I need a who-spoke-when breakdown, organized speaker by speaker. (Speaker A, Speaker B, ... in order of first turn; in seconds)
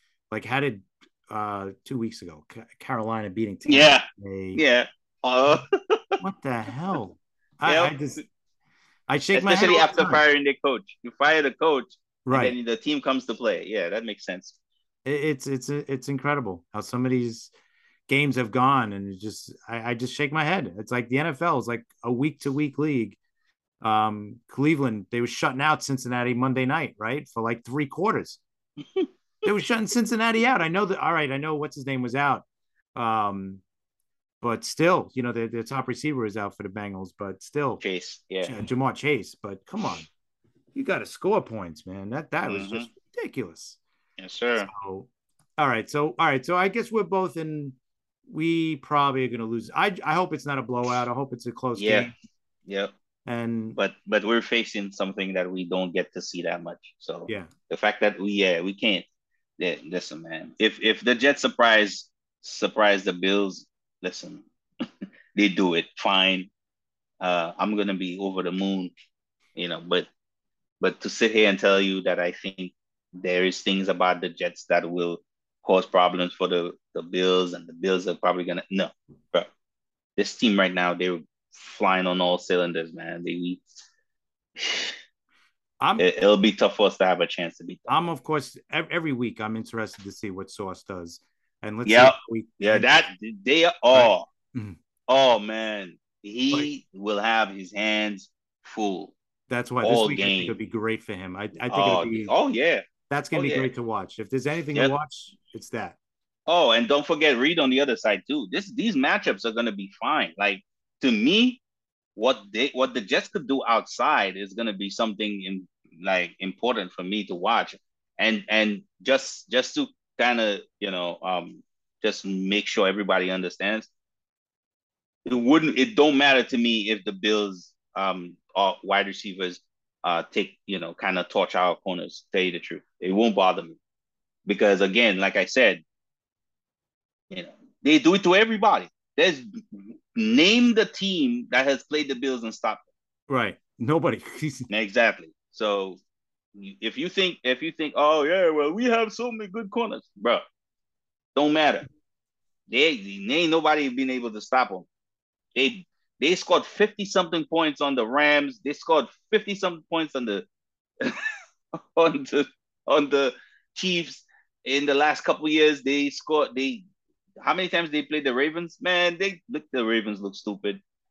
Speaker A: 0.3-4.6, 6.2-8.2, 9.1-10.2, 12.2-12.5, 15.1-17.5, 18.1-23.2, 23.8-28.4, 29.4-33.6, 34.4-37.8, 38.4-40.1, 40.8-43.8, 44.6-47.8, 48.3-52.1, 53.3-53.8, 87.9-93.0, 93.9-94.8, 99.5-102.3, 103.1-106.0, 143.3-144.7
Speaker B: 3.7-6.2, 7.6-8.0, 9.3-14.6, 37.8-38.6, 42.5-42.9, 44.2-44.7, 51.8-52.1, 52.7-52.9, 53.7-59.1, 59.6-66.5, 67.2-68.9, 69.6-70.1, 70.8-79.5, 80.2-83.6, 84.6-85.0, 86.0-88.0, 91.8-94.3, 95.1-99.2, 99.8-100.6, 101.7-103.7, 106.5-111.6, 112.2-123.9, 125.3-133.8, 134.5-135.8, 137.3-142.9, 144.7-146.0, 146.6-150.4, 151.3-151.9, 152.7-154.9, 155.6-160.5, 161.0-166.8, 167.4-170.8